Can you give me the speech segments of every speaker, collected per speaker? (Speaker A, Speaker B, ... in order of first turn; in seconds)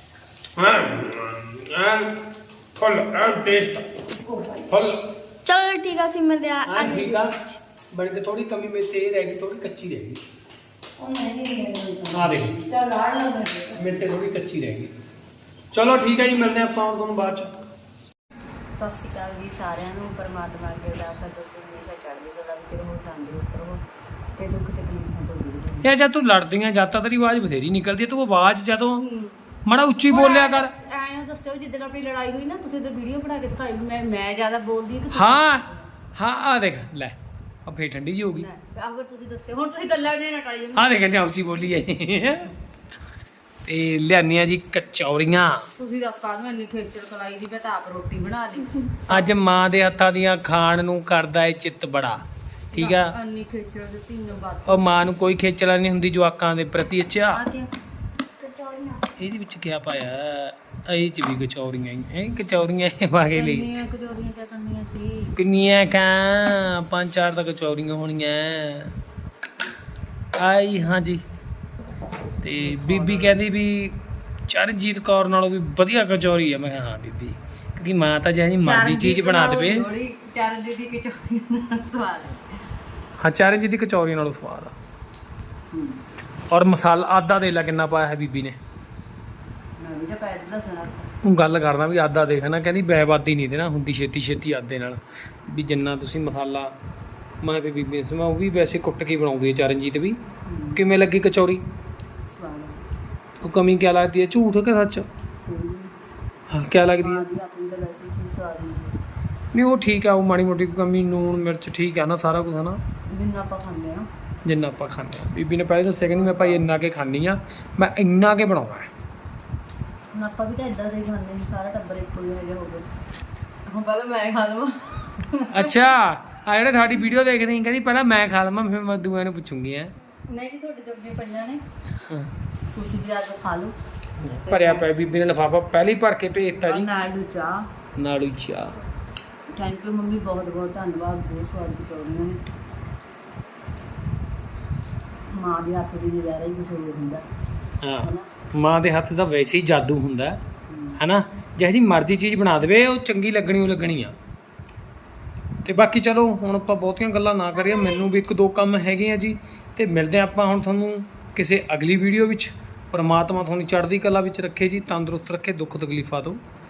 Speaker A: 0.6-2.1, 2.8-3.9, 4.7-5.0, 6.7-7.3, 7.9-10.2, 12.1-12.5, 13.8-14.9, 15.7-17.5, 25.8-29.0, 29.6-30.7, 35.1-35.6, 36.1-38.5, 40.7-42.5, 43.6-45.7, 49.1-53.1, 54.7-57.4, 59.2-63.7, 65.3-68.9, 70.4-71.2, 72.4-74.0, 74.5-79.8, 83.2-84.7, 86.5-88.6, 91.2-96.7, 97.4-100.2, 100.8-101.6, 103.4-105.0, 106.5-107.2, 109.5-112.8, 114.4-118.9, 125.5-129.9, 134.2-136.9, 138.0-138.8, 147.8-150.4, 151.0-154.1, 155.6-166.4
Speaker B: 4.1-4.7, 11.0-14.0
Speaker C: 5.5-7.5, 58.4-59.0
Speaker D: 18.8-23.8, 24.4-25.9, 29.0-29.4, 30.1-35.8, 38.4-41.0, 45.8-49.2, 52.7-54.8, 57.3-57.7, 63.3-65.3, 72.6-73.3, 78.6-82.4, 85.7-86.0, 89.8-91.1, 100.5-100.8, 102.3-102.8, 105.5-105.9, 107.0-108.9, 113.1-114.0, 116.2-116.6, 120.1-122.9, 123.7-125.9, 130.3-131.6, 132.7-134.8, 136.6-137.7, 139.5-142.4, 145.3-147.2, 148.0-148.3, 150.7-151.0